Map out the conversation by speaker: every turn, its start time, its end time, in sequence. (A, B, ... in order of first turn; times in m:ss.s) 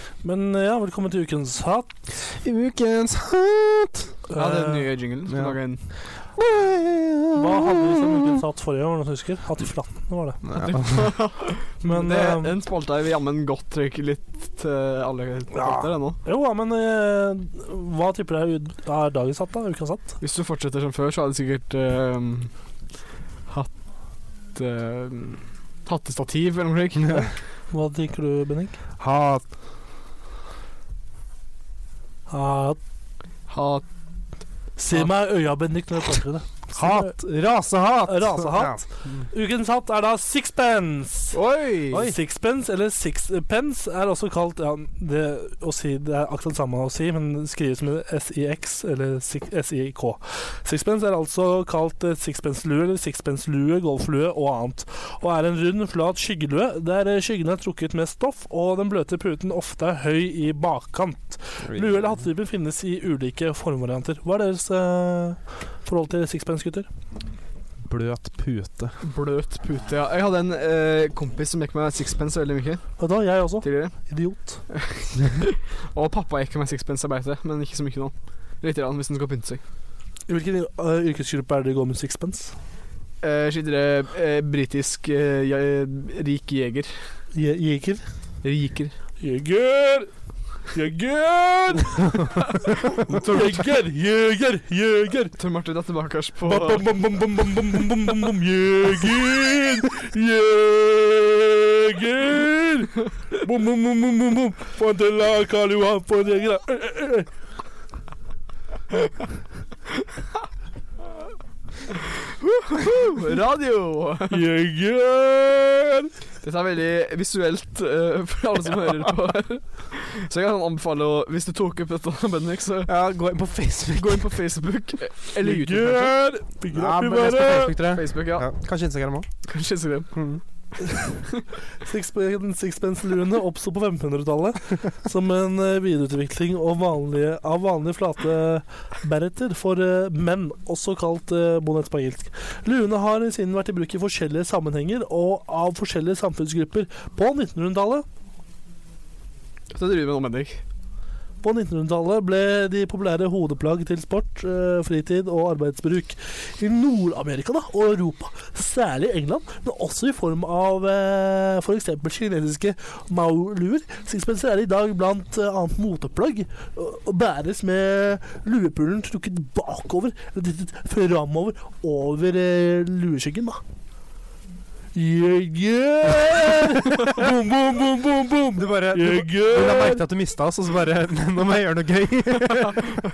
0:00.2-0:01.9 A
0:02.1-0:04.1 B
0:04.3-0:04.9 A
0:04.3-0:05.8 C
0:05.3-0:08.4 B
0:07.3-0:10.4 A
0:10.4-0:11.1 B
0:10.5-0:16.2 C
0:11.8-0:12.5 A
0:15.5-0:20.2 A
0:20.2-0:22.5 C
0:24.5-0:27.3 C
0:27.2-0:28.8 A
0:29.0-0:29.4 B
0:32.3-0:32.8 A
0:33.5-0:33.8 C
0:34.8-0:37.2 A
0:36.7-0:39.2 B
0:38.1-0:41.4 A
0:41.3-0:42.0 C
0:41.9-1:06.9 A
1:01.6-1:02.2 B
1:07.8-1:09.0 B
1:09.0-1:13.0 C
1:13.0-1:14.6 A
1:13.6-1:14.1 C
1:14.7-1:19.6 C
1:20.3-1:22.5 A
1:23.2-1:27.0 C
1:27.3-1:28.0 A
1:28.4-1:28.9 C
1:29.2-1:30.1 A
1:30.7-1:32.4 A
1:32.9-1:35.3 A
1:33.1-1:33.6 C
1:35.4-1:36.8 C
1:36.4-1:47.3 A
1:52.4-1:54.4 C
1:54.3-1:56.1 A
1:56.4-2:02.9 C
2:02.8-2:04.3 B
2:03.9-2:06.2 C
2:05.4-2:07.8 A
2:06.7-2:09.3 B
2:07.2-2:08.5 C
2:09.4-2:10.2 C
2:10.1-2:10.4 B
2:11.8-2:28.0 A
2:29.7-2:30.6 C
2:31.4-2:53.6 A
2:54.9-3:00.0 A
2:58.5-3:03.0 B